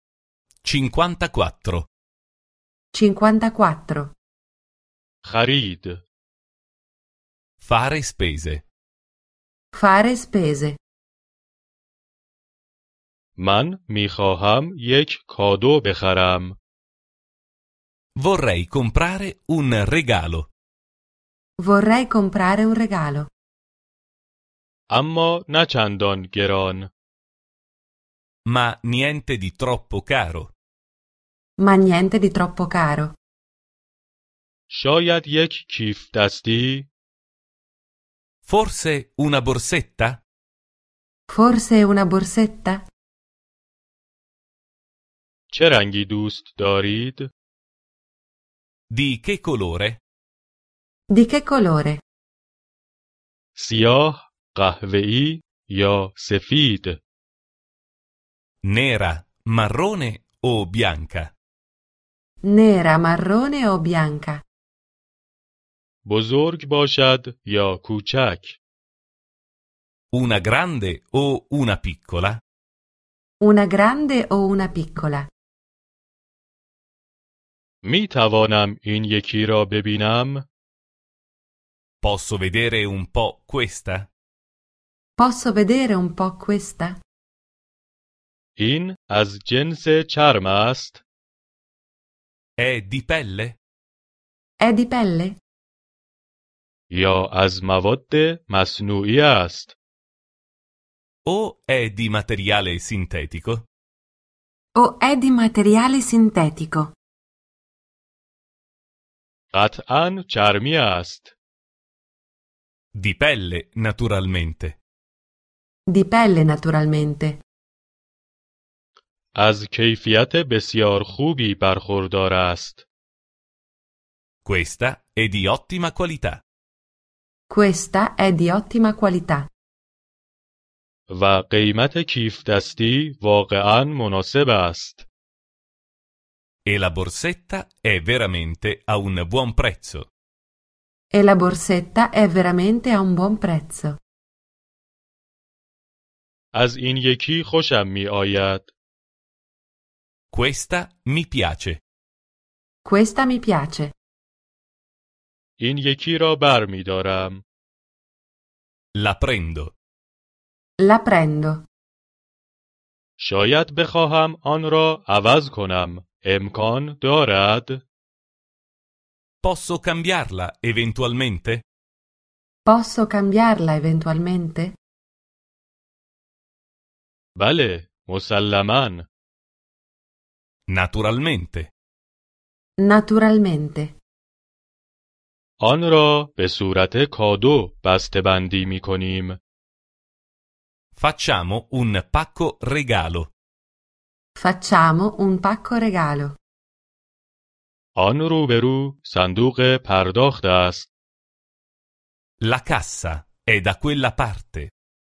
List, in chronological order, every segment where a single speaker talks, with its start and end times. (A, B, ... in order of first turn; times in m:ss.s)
0:00.6-0:01.9 A
0:02.9-0:04.1 B
0:05.2-0:06.0 C
0:07.6-0:08.6 A
0:09.7-0:10.8 B
0:13.4-0:16.6 C
0:18.2-0:20.5 A
0:21.6-0:23.3 B
0:24.9-0:26.9 C
0:28.4-0:30.5 A
0:31.6-0:33.2 B
0:34.7-0:36.9 C
0:38.4-0:40.2 A
0:41.3-0:42.8 B
0:45.5-0:47.3 C
0:48.9-0:50.0 A
0:51.1-0:52.0 B
0:53.6-0:57.0 C
0:58.6-1:01.3 A
1:02.4-1:04.4 B
1:06.0-1:08.6 C
1:10.1-1:12.4 A
1:13.4-1:15.3 B
1:17.8-1:20.4 C
1:22.0-1:24.1 A
1:25.2-1:27.0 B
1:28.6-1:31.0 C
1:32.6-1:33.6 A
1:34.6-1:35.4 B
1:36.9-1:39.7 C
1:41.2-1:43.6 A
1:44.7-1:46.9 B
1:49.5-1:51.3 C
1:52.9-1:54.8 A
1:55.9-1:57.4 B
1:59.3-2:02.8 C
2:04.4-2:06.4 A
2:07.5-2:09.5 B
2:11.1-2:15.1 C
2:16.6-2:20.1 A
2:21.1-2:24.0 B
2:26.5-2:28.7 C
2:30.3-2:31.8 A
2:32.8-2:33.9 B
2:35.6-2:37.4 C
2:38.9-2:39.7 A
2:40.8-2:41.6 B
2:43.2-2:47.8 C
2:49.4-2:51.6 A
2:52.6-2:54.8 B
2:57.4-2:59.1 C
3:00.7-3:01.7 A
3:02.8-3:04.0 B
3:05.6-3:09.4 C
3:11.0-3:13.3 A
3:14.4-3:16.4 B
3:18.0-3:20.9 C
3:22.4-3:24.7 A